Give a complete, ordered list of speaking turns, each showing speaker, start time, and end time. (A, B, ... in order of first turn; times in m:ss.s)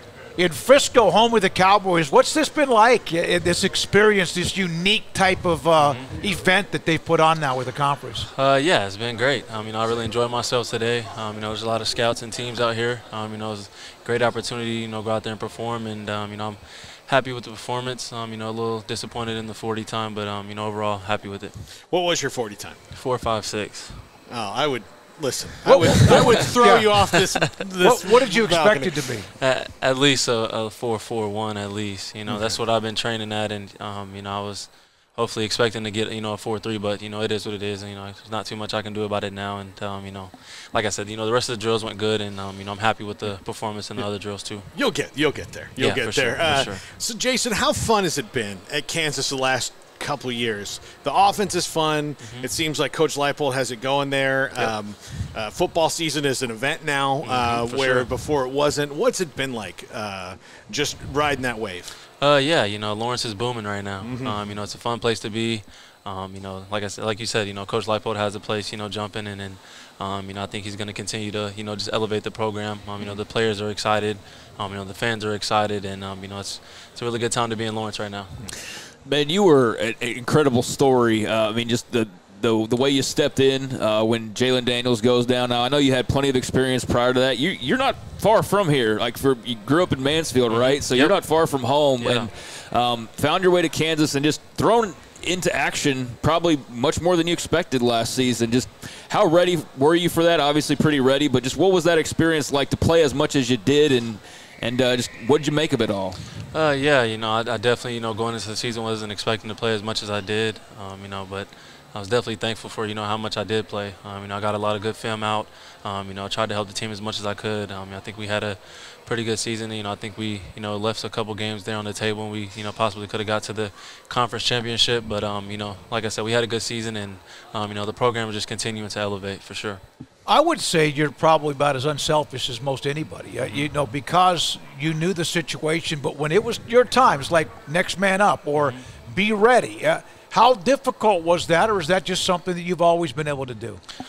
0:00.4-0:08.3 A
0:05.8-0:06.0 B
0:08.4-0:21.6 B
0:21.9-0:22.8 C
0:22.9-0:24.0 B
0:24.3-0:29.0 C
0:25.6-0:27.0 A
0:26.1-0:26.4 B
0:27.0-0:27.3 B
0:27.8-0:29.3 A
0:29.4-0:44.7 B
0:32.3-0:32.6 C
0:44.7-1:01.9 C
0:45.8-0:46.9 B
0:52.2-0:52.5 B
0:57.2-0:58.1 B
1:02.2-1:18.3 B
1:04.0-1:04.5 C
1:19.0-1:46.2 D
1:30.5-1:31.2 B
1:32.0-1:32.3 B
1:46.5-2:09.8 B
2:10.3-2:23.8 A